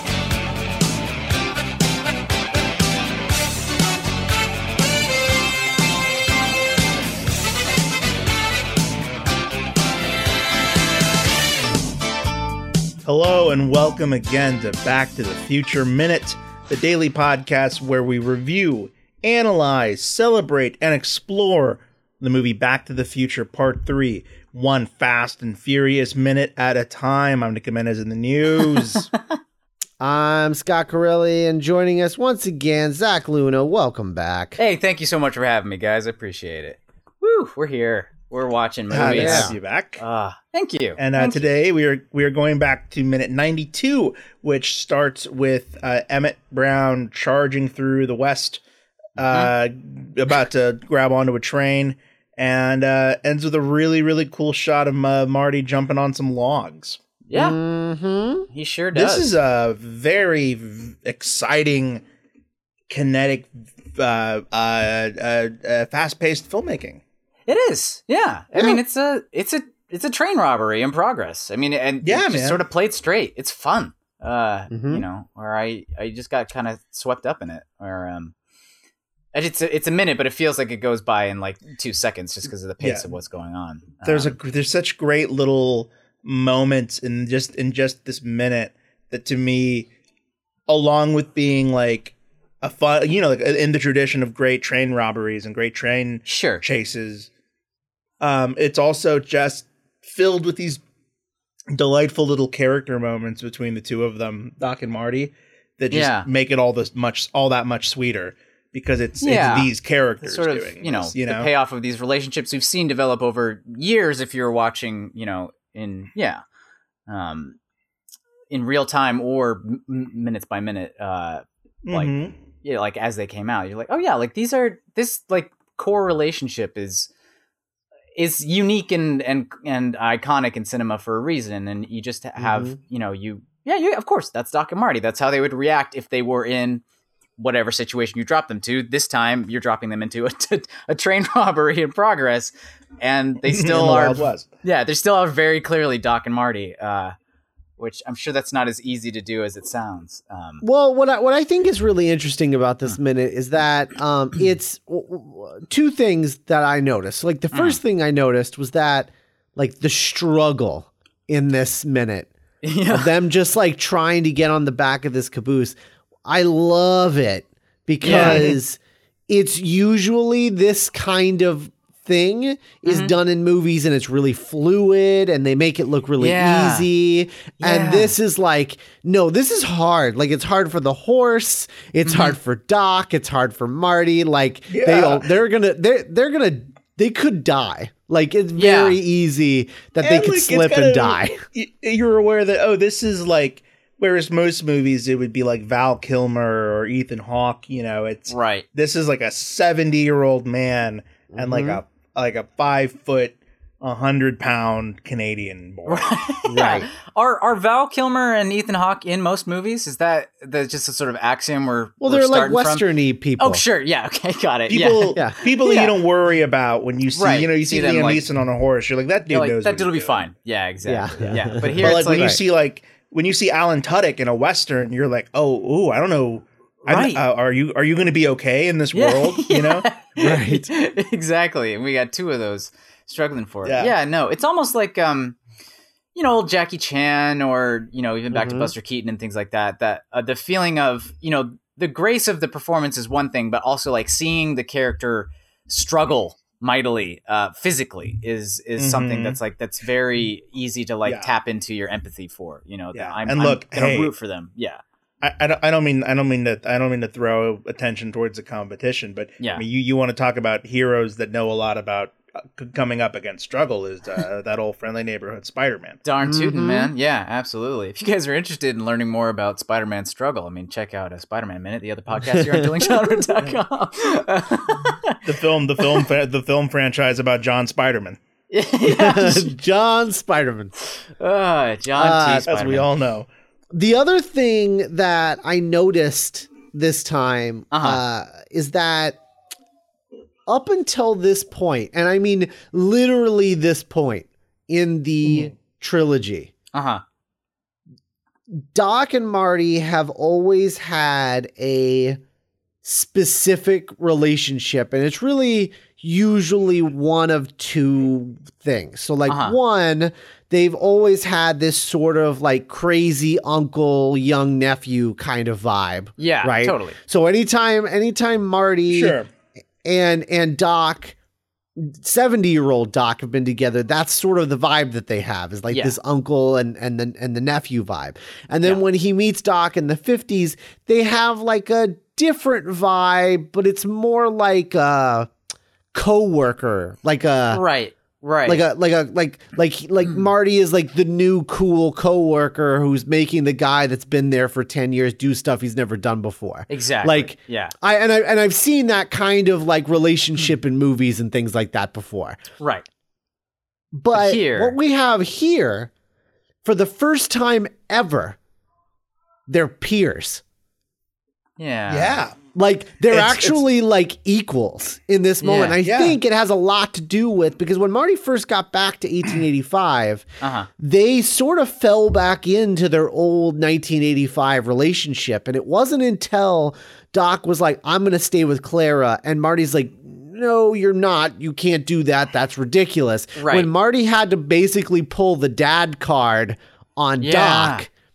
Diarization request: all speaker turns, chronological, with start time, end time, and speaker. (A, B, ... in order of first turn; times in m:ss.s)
0:13.0-0:29.1 A
0:28.6-0:29.1 B
0:30.0-0:34.6 C
0:34.6-0:41.4 B
0:38.9-0:40.0 A
0:38.9-0:39.5 C
0:41.0-0:48.6 A
0:49.2-0:57.0 A
0:57.3-0:57.6 B
0:57.3-0:58.4 C
0:58.5-0:59.3 B
0:58.9-1:02.0 A
1:02.9-1:07.0 A
1:07.5-1:18.3 B
1:08.6-1:08.8 C
1:12.0-1:12.6 A
1:14.7-1:15.0 C
1:19.3-1:24.3 B
1:22.8-1:23.1 A
1:24.0-1:29.9 A
1:30.7-1:37.3 A
1:36.2-1:36.6 B
1:38.2-1:40.8 A
1:41.7-1:51.5 A
1:45.9-1:46.3 B
1:49.2-1:49.7 B
1:50.2-1:56.4 B
1:57.1-1:57.6 B
1:58.5-2:07.1 B
2:01.8-2:02.3 A
2:08.2-2:16.8 B
2:12.4-2:12.8 C
2:17.4-2:27.2 B
2:23.4-2:24.5 A
2:27.8-2:30.6 B
2:30.6-2:42.3 C
2:37.5-2:37.8 B
2:42.6-2:43.1 B
2:42.9-3:11.4 C
2:48.0-2:48.6 B
2:52.9-2:53.1 B
2:56.2-2:56.9 B
2:57.6-2:58.2 B
3:02.1-3:02.4 B
3:04.7-3:05.3 A
3:08.6-3:09.0 B
3:10.0-3:26.1 A
3:18.3-3:18.6 B
3:21.3-3:21.8 C
3:25.9-3:32.9 B
3:26.5-3:26.9 C
3:32.0-3:33.6 C
3:33.4-3:36.0 B
3:34.7-3:40.2 A
3:37.2-3:38.2 B
3:39.3-3:42.3 B
3:40.8-3:42.4 C
3:41.8-3:49.9 A
3:46.8-3:47.2 B
3:48.9-3:55.4 B
3:50.2-3:50.7 C
3:53.6-3:53.9 A
3:56.2-4:14.8 B
3:58.3-3:58.7 C
4:08.8-4:09.4 A
4:11.0-4:11.3 A
4:12.9-4:14.1 A
4:15.2-4:26.0 A
4:26.0-4:35.2 B
4:26.2-4:26.9 C
4:32.2-4:32.9 C
4:35.2-4:38.2 A
4:38.5-4:39.5 B
4:38.8-4:40.7 C
4:40.9-4:42.9 B
4:42.0-4:42.5 C
4:42.5-4:43.3 A
4:43.7-4:49.2 C
4:47.7-4:48.0 B
4:50.5-4:56.5 C
4:56.7-4:57.0 B
4:58.5-5:02.2 C
5:02.8-5:19.2 C
5:09.3-5:09.6 B
5:16.2-5:17.0 B
5:18.9-5:19.3 A
5:19.8-5:21.2 C
5:21.8-5:35.3 C
5:25.7-5:26.0 B
5:35.9-5:37.6 C
5:37.5-5:38.6 B
5:38.4-5:52.4 C
5:46.7-5:47.7 B
5:52.6-5:52.9 B
5:53.9-5:55.9 C
5:54.1-5:54.8 B
5:56.6-5:58.4 C
5:59.5-6:00.4 C
6:01.6-6:02.2 B
6:01.9-6:02.4 A
6:02.5-6:10.2 C
6:03.1-6:03.6 A
6:05.4-6:05.8 B
6:05.8-6:06.2 A
6:10.4-6:10.7 B
6:10.8-6:27.9 C
6:23.4-6:23.7 B
6:27.2-6:27.9 B